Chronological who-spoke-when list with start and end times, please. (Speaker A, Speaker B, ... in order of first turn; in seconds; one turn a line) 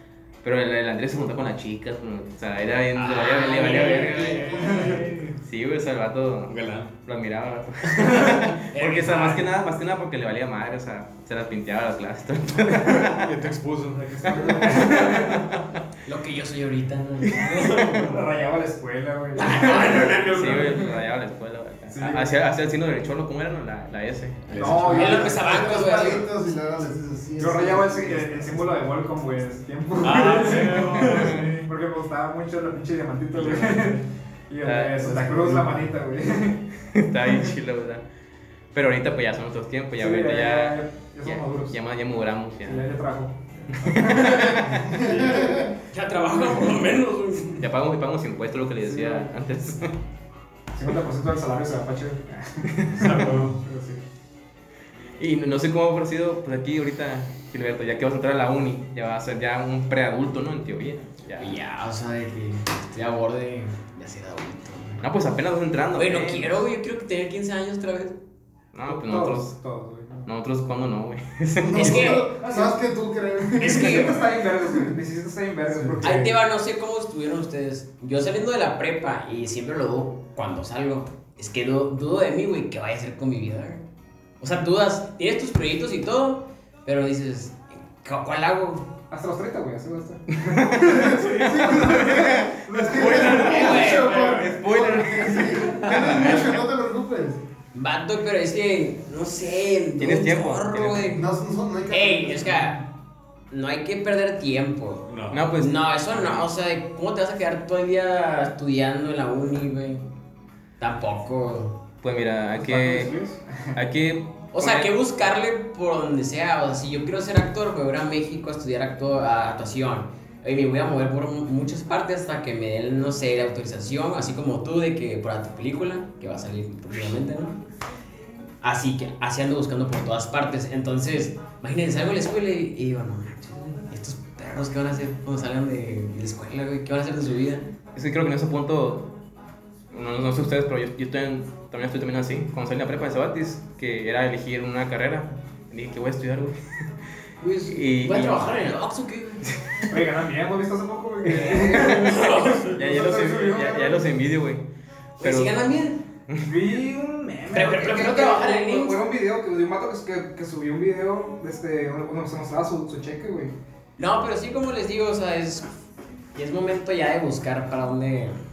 Speaker A: 0.4-4.7
Speaker B: 3.0-5.1
Speaker C: 3.5-5.1
Speaker D: 3.9-5.4
Speaker A: 5.4-13.2
Speaker D: 6.5-6.9
Speaker B: 8.0-9.5
Speaker C: 12.7-13.1
Speaker D: 13.1-15.6
Speaker C: 13.9-15.5
Speaker A: 14.3-15.3
Speaker B: 16.1-18.2
Speaker C: 17.9-21.0
Speaker B: 19.4-20.9
Speaker D: 20.2-20.6
Speaker A: 20.3-24.4
Speaker C: 21.9-22.3
Speaker D: 24.5-25.2
Speaker C: 24.6-26.2
Speaker B: 24.8-26.3
Speaker E: 24.9-28.8
Speaker C: 27.4-36.6
Speaker D: 30.0-31.7
Speaker A: 30.9-31.5
Speaker D: 33.3-34.0
Speaker A: 34.6-35.1
Speaker E: 35.0-35.9
Speaker D: 35.3-35.6
Speaker A: 36.9-38.0
Speaker A: 38.7-42.9
Speaker C: 40.0-41.8
Speaker C: 42.6-45.0
Speaker A: 43.7-44.9
Speaker E: 44.6-45.7
Speaker D: 45.0-45.5
Speaker B: 45.9-47.6
Speaker A: 47.6-49.9
Speaker C: 48.9-49.3
Speaker C: 50.8-54.0
Speaker D: 53.0-53.6
Speaker A: 55.2-61.6
Speaker B: 61.4-65.0
Speaker A: 65.0-66.5
Speaker B: 65.9-68.2
Speaker A: 68.7-69.5
Speaker C: 68.9-70.3
Speaker A: 70.2-72.2
Speaker E: 71.6-74.9
Speaker B: 71.7-72.3
Speaker C: 72.3-72.8
Speaker C: 73.6-76.3
Speaker B: 73.8-74.0
Speaker D: 75.9-76.3
Speaker B: 76.0-83.8
Speaker B: 84.4-88.9
Speaker C: 89.1-91.2
Speaker A: 90.5-96.6
Speaker E: 90.8-97.4
Speaker C: 92.7-93.2
Speaker B: 92.9-94.3
Speaker B: 97.7-101.2
Speaker A: 100.0-101.2
Speaker E: 101.1-102.8
Speaker B: 101.9-102.8
Speaker B: 103.5-105.1
Speaker D: 105.1-105.5
Speaker A: 105.3-106.5
Speaker B: 105.6-110.1
Speaker B: 110.8-111.8
Speaker A: 112.0-113.1
Speaker C: 112.6-113.7
Speaker A: 113.8-114.9
Speaker B: 114.5-127.6
Speaker B: 128.6-137.6
Speaker A: 137.9-139.1
Speaker A: 139.9-146.9
Speaker B: 147.4-149.5
Speaker A: 147.7-148.7
Speaker C: 149.9-154.1
Speaker B: 151.2-152.8
Speaker A: 151.9-154.7
Speaker B: 155.2-156.0
Speaker A: 155.2-155.7
Speaker C: 156.4-163.5
Speaker B: 157.5-159.0
Speaker B: 164.0-165.7
Speaker B: 166.3-168.4